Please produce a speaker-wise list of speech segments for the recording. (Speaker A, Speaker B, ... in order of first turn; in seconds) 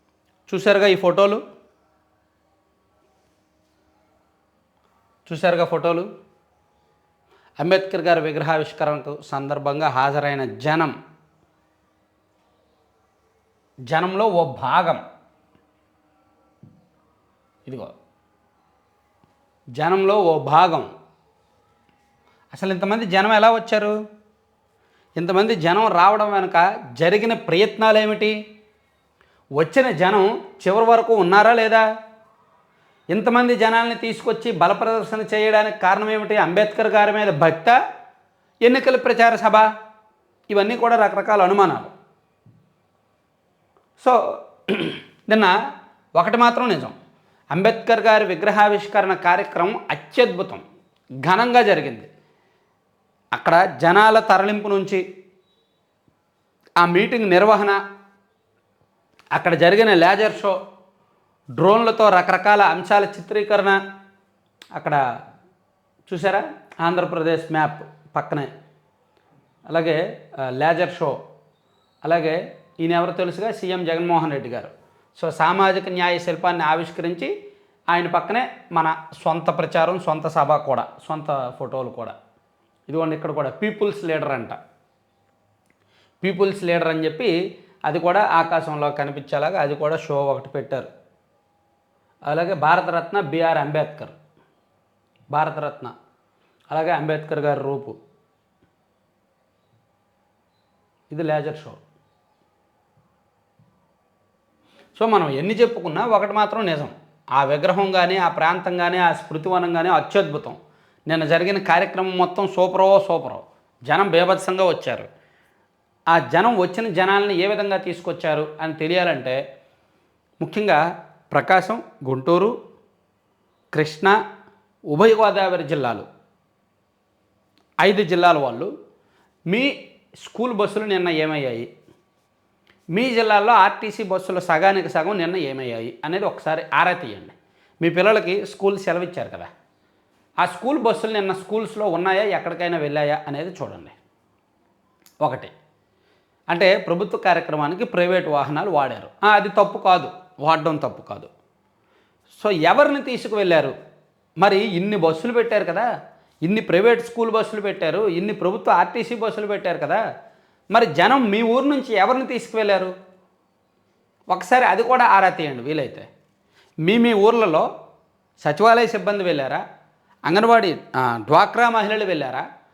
Speaker A: 0.5-1.4, 5.3-6.1, 7.6-10.9, 13.9-15.0, 17.6-17.9, 19.8-20.9, 22.5-24.0, 25.2-28.4, 29.6-31.8, 33.1-37.8, 38.6-39.6, 40.5-41.9, 44.0-45.5, 46.2-46.9, 47.5-50.6, 51.2-52.1, 53.4-55.0, 56.8-57.8, 59.3-60.6, 61.6-63.8, 64.8-65.0, 66.1-68.5, 69.7-71.2, 72.0-77.3, 77.9-82.1, 82.9-84.6, 86.2-87.3, 87.9-90.9, 92.3-94.1, 95.3-95.9, 96.7-98.0, 101.1-101.8, 105.0-115.1, 116.1-119.4, 120.4-122.5, 123.7-124.1, 124.9-126.1, 127.8-128.7, 129.5-131.7, 132.9-139.5, 140.4-143.9, 145.2-145.5, 146.5-151.3, 152.3-153.7, 154.4-155.9, 156.4-160.0, 160.7-162.9, 164.3-166.1, 166.8-167.7, 168.4-169.6, 170.3-172.4